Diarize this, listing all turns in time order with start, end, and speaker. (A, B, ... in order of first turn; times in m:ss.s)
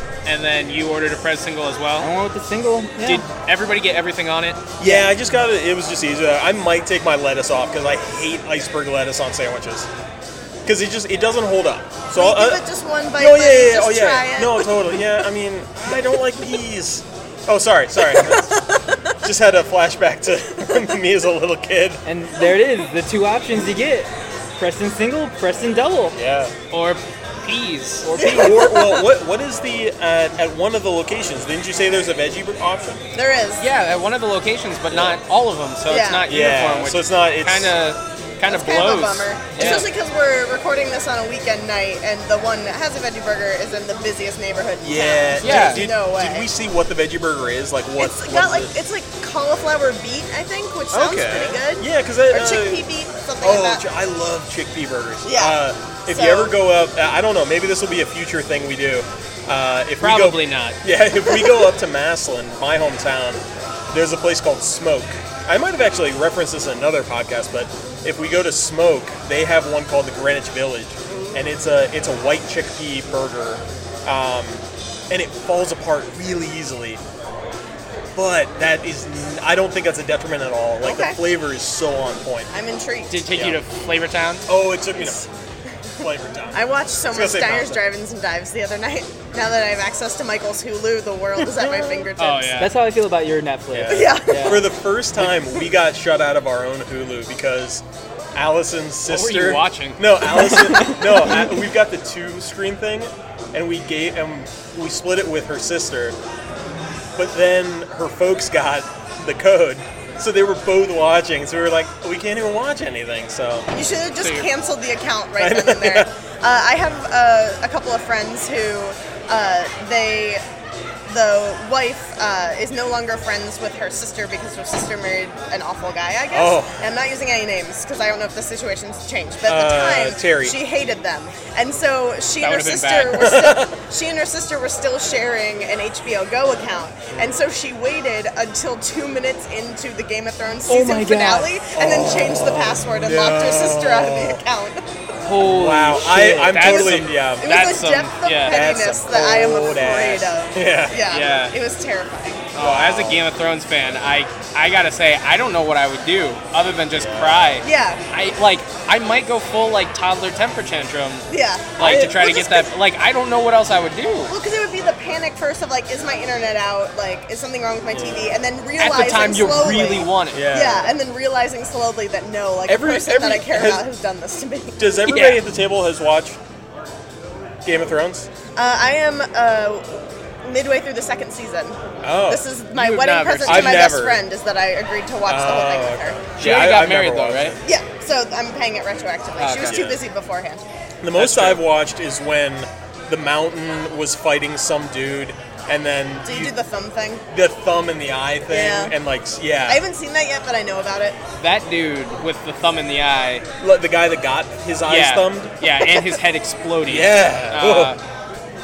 0:00.2-0:02.1 A
0:02.0-0:03.2 B
0:03.0-0:04.6 A
0:04.8-0:09.9 C
0:04.8-0:05.1 B
0:10.6-0:12.6 C
0:12.2-0:15.0 D
0:13.2-0:18.6 C
0:18.1-0:19.1 D
0:19.2-0:22.0 C
0:22.0-0:26.2 B
0:26.2-0:26.5 C
0:26.7-0:28.1 A
0:28.0-0:28.6 B
0:28.2-0:33.0 C
0:28.2-0:29.1 D
0:33.1-0:33.6 D
0:33.6-0:39.9 A
0:34.9-0:35.2 C
0:35.9-0:36.3 D
0:36.3-0:37.8 C
0:38.5-0:46.5 D
0:44.8-0:48.7 C
0:45.4-0:45.9 A
0:48.0-0:53.8 D
0:50.9-0:52.9 C
0:53.4-1:17.0 C
0:55.2-0:56.6 D
1:00.0-1:00.8 A
1:01.3-1:01.6 D
1:18.2-1:22.5 C
1:20.8-1:21.2 D
1:22.5-1:23.3 D
1:23.1-1:24.5 A
1:23.3-1:23.6 C
1:24.5-1:25.2 C
1:25.0-1:25.3 D
1:26.0-1:27.8 C
1:26.5-1:32.7 D
1:32.2-1:32.7 A
1:32.6-1:34.7 B
1:33.7-1:37.8 C
1:33.9-1:34.7 D
1:38.4-1:46.2 C
1:39.1-1:40.1 A
1:40.4-1:41.2 B
1:47.2-1:53.7 C
1:53.7-2:00.4 D
1:54.2-1:54.5 A
1:55.4-1:56.1 C
2:01.1-2:24.8 D
2:06.3-2:06.8 C
2:09.5-2:10.6 C
2:12.4-2:13.3 A
2:13.1-2:13.8 C
2:20.7-2:21.6 B
2:21.8-2:24.4 C
2:25.2-2:26.6 B
2:25.4-2:27.5 C
2:26.2-2:28.6 A
2:26.6-2:32.5 D
2:28.5-2:31.0 C
2:31.1-2:31.5 A
2:32.5-2:41.3 A
2:32.6-2:33.2 C
2:37.0-2:37.5 C
2:37.6-2:38.0 D
2:41.3-2:42.7 D
2:41.8-2:44.3 A
2:41.8-2:42.2 C
2:44.3-2:54.8 D
2:47.9-2:48.3 C
2:48.8-2:50.5 A
2:50.3-2:50.9 C
2:52.7-2:53.8 C
2:54.8-2:56.4 C
2:55.1-2:55.4 A
2:57.6-2:58.3 C
2:58.6-3:06.2 D
3:02.0-3:02.4 C
3:02.8-3:04.0 A
3:03.5-3:04.2 C
3:05.2-3:07.7 C
3:06.4-3:07.6 A
3:07.6-3:10.6 D
3:09.4-3:09.8 A
3:09.6-3:10.0 C
3:11.0-3:16.6 C
3:11.2-3:11.6 A
3:16.2-3:17.2 D
3:17.3-3:19.8 C
3:18.5-3:18.9 D
3:19.7-3:21.2 D
3:21.4-3:23.4 A
3:23.6-3:25.5 C
3:24.9-3:28.0 A
3:26.9-3:28.0 C